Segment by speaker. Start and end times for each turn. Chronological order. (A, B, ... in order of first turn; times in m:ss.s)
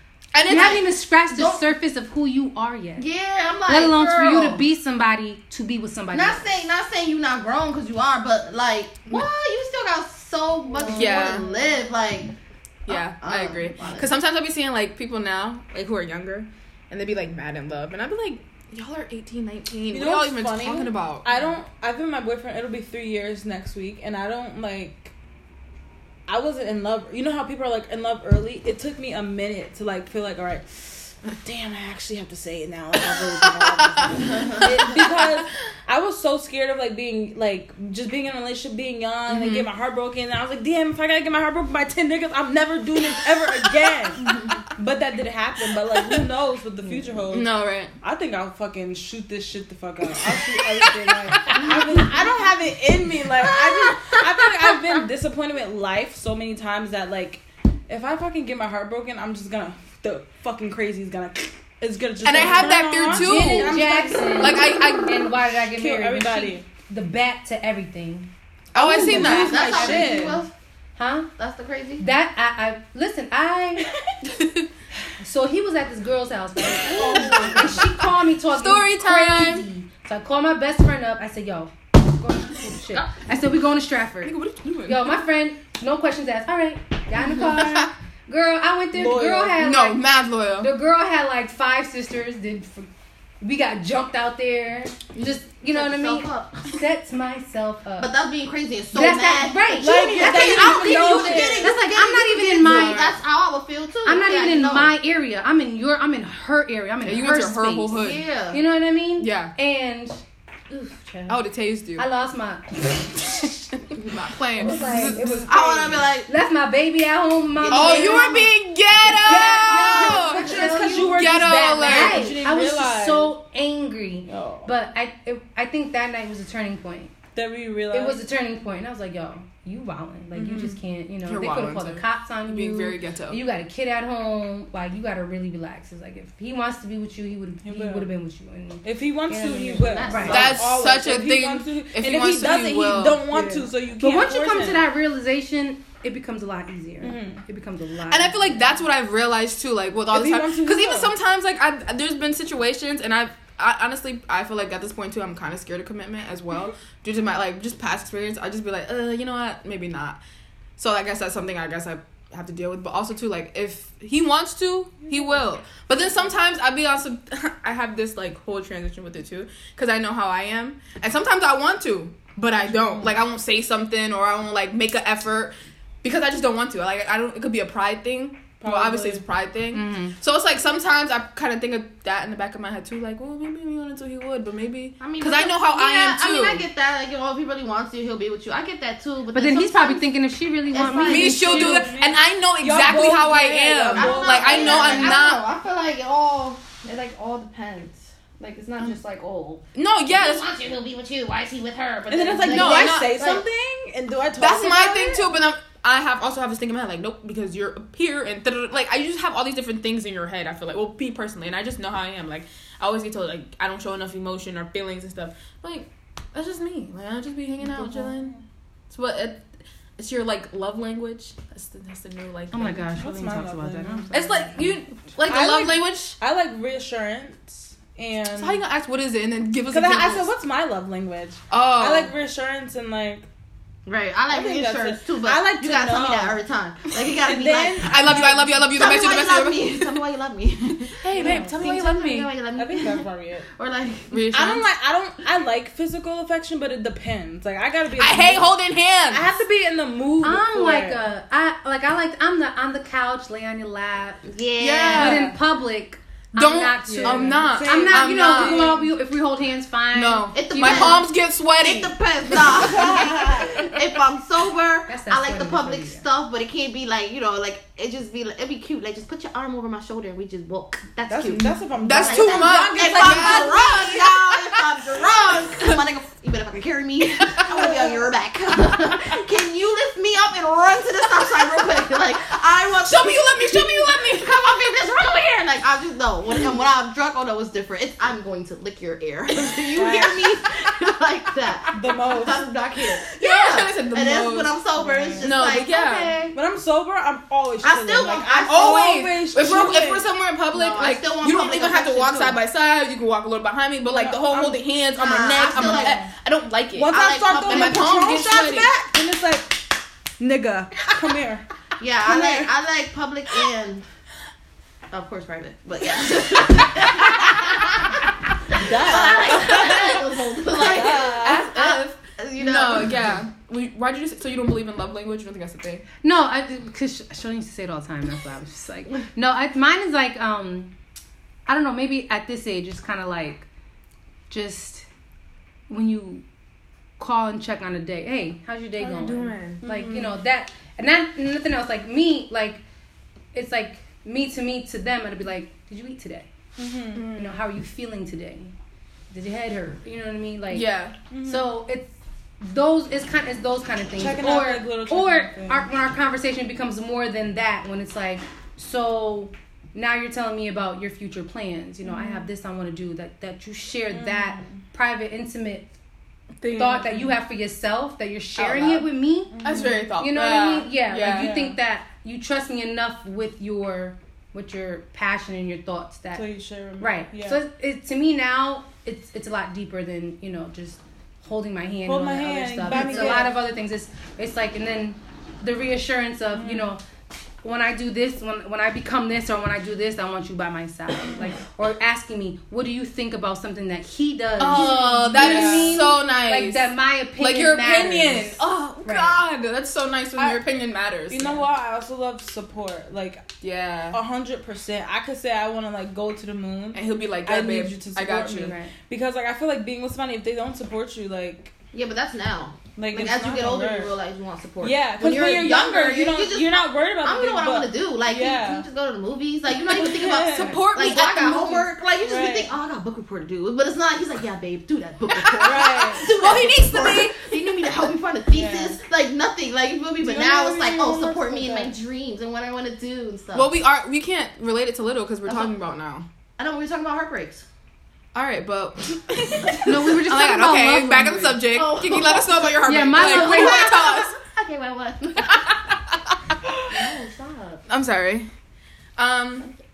0:00.3-0:00.8 A
0:00.5-0:03.1 B
0:01.3-0:01.6 C
0:03.0-0:04.6 C
0:03.6-0:06.6 B
0:06.1-0:12.3 C
0:10.7-0:11.7 B
0:10.9-0:11.4 A
0:12.8-0:21.3 A
0:12.9-0:14.1 C
0:19.9-0:25.1 D
0:26.3-0:47.5 D
0:33.3-0:35.2 A
0:34.3-0:34.7 C
0:39.3-0:39.7 A
0:44.2-0:44.6 A
0:45.9-0:46.2 A
0:47.3-0:47.9 A
0:48.0-1:04.5 D
0:51.7-0:52.1 C
0:53.5-0:54.2 C
1:02.2-1:03.8 A
1:03.1-1:10.4 B
1:04.4-1:05.3 A
1:05.7-1:06.6 D
1:08.7-1:10.0 A
1:08.8-1:10.5 C
1:08.9-1:10.4 D
1:11.0-1:11.3 B
1:11.4-1:12.0 C
1:12.0-1:13.9 B
1:14.2-1:14.7 A
1:15.2-1:24.3 B
1:16.9-1:17.7 C
1:16.9-1:17.9 A
1:17.0-1:17.6 D
1:18.5-1:19.6 A
1:24.2-1:25.2 A
1:24.8-1:30.0 B
1:27.4-1:27.9 A
1:28.9-1:29.6 D
1:29.6-1:30.7 A
1:30.6-1:32.9 B
1:33.4-1:38.1 B
1:35.1-1:36.6 C
1:38.0-1:44.9 C
1:38.9-1:43.2 B
1:39.8-1:41.8 D
1:44.0-1:48.0 B
1:47.0-1:48.2 A
1:47.9-1:48.6 C
1:48.5-1:51.4 B
1:49.2-1:49.5 A
1:51.3-1:52.0 A
1:52.0-1:53.7 B
1:54.0-1:56.0 A
1:54.6-1:55.5 B
1:54.7-1:55.4 D
1:55.5-1:56.3 C
1:56.2-2:07.1 B
1:57.6-1:58.5 C
1:57.7-2:02.3 A
1:59.2-2:00.9 C
2:00.1-2:03.3 D
2:04.3-2:04.7 D
2:07.3-2:08.2 D
2:07.9-2:20.4 B
2:10.3-2:10.8 D
2:11.2-2:13.4 A
2:17.6-2:18.1 D
2:18.8-2:24.9 D
2:19.8-2:20.6 C
2:20.3-2:23.2 A
2:23.3-2:28.8 B
2:27.0-2:27.4 D
2:28.1-2:40.2 A
2:30.1-2:31.1 D
2:40.8-3:06.6 A
2:45.1-2:45.4 D
2:58.6-2:59.2 D
2:59.7-3:00.2 B
3:05.0-3:10.1 C
3:09.3-3:11.9 B
3:10.7-3:11.6 C
3:11.0-3:15.4 A
3:11.2-3:15.2 D
3:13.9-3:23.4 C
3:19.7-3:20.5 A
3:22.1-3:25.3 D
3:22.4-3:23.3 A
3:24.4-3:38.3 A
3:37.7-3:38.4 D
3:38.9-3:42.9 A
3:42.5-3:44.8 B
3:42.9-3:44.2 D
3:44.1-3:46.2 A
3:45.3-3:48.6 D
3:48.4-3:50.3 A
3:49.7-3:53.2 D
3:51.5-3:52.1 A
3:53.8-4:04.2 C
3:54.3-3:56.4 D
3:57.1-3:58.7 D
3:57.8-4:00.0 A
4:00.8-4:02.3 A
4:01.1-4:01.5 D
4:02.6-4:03.4 D
4:04.1-4:04.6 A
4:04.3-4:08.5 D
4:08.0-4:09.4 A
4:09.1-4:11.0 D
4:10.2-4:14.2 B
4:14.2-4:15.2 C
4:14.6-4:15.3 A
4:14.9-4:21.0 B
4:15.0-4:15.3 D
4:16.3-4:18.8 A
4:16.9-4:18.9 D
4:19.9-4:23.4 A
4:20.3-4:21.1 C
4:21.6-4:56.4 C
4:22.5-4:23.6 D
4:24.9-4:26.0 B
4:31.1-4:34.1 D
4:31.4-4:35.8 A
4:37.5-4:38.0 D
4:42.8-4:44.7 A
4:49.7-4:50.2 D
4:51.7-4:52.5 D
4:53.1-4:54.5 A
4:54.8-4:55.3 D
4:55.2-4:56.1 A
4:56.3-5:00.0 D
4:57.6-4:59.0 C
4:58.4-5:08.7 A
5:00.5-5:02.4 C
5:03.9-5:04.6 D
5:05.0-5:06.0 C
5:05.5-5:06.1 D
5:06.7-5:11.5 D
5:06.9-5:07.9 C
5:11.8-5:13.8 C
5:12.0-5:12.5 D
5:14.9-5:23.2 C
5:18.5-5:21.5 D
5:21.0-5:25.8 A
5:26.0-5:30.7 B
5:31.5-5:33.5 B
5:34.3-5:34.9 B
5:35.7-5:36.2 B
5:37.0-5:42.6 B
5:38.8-5:39.6 A
5:39.6-5:40.2 D
5:43.3-5:46.3 B
5:46.6-5:47.0 D
5:46.9-5:47.4 A
5:47.1-5:48.5 B
5:49.1-5:50.7 B
5:50.5-5:51.0 A
5:51.1-5:51.5 D
5:51.2-6:05.7 B
5:54.0-5:55.7 D
6:01.8-6:02.3 D
6:03.9-6:04.6 D
6:06.4-6:06.9 A
6:06.5-6:09.3 B
6:08.4-6:08.9 A
6:09.3-6:09.9 D
6:09.4-6:11.5 A
6:10.0-6:16.3 B
6:16.1-6:17.4 D
6:16.8-6:26.8 B
6:21.8-6:23.4 D
6:26.3-6:26.7 D
6:27.4-6:39.2 B
6:34.4-6:41.4 A
6:34.5-6:35.8 D
6:41.1-6:43.2 D
6:43.4-6:44.0 A
6:43.9-6:51.5 D
6:46.7-6:48.5 A
6:48.4-6:48.7 B
6:51.7-7:13.5 C
6:52.8-6:53.9 D
6:54.6-6:58.6 D
6:59.6-7:00.6 D
7:00.1-7:01.7 A
7:02.0-7:02.5 D
7:05.2-7:07.1 A
7:05.4-7:06.4 D
7:08.3-7:08.8 D
7:10.0-7:11.7 D
7:13.3-7:16.0 A
7:15.2-7:15.5 C
7:16.4-7:17.4 C
7:18.1-7:24.1 A
7:19.6-7:21.4 B
7:21.5-7:25.6 C
7:22.6-7:23.7 B
7:25.2-7:25.6 A
7:26.7-7:27.6 C
7:27.7-7:28.3 A
7:29.0-7:29.5 A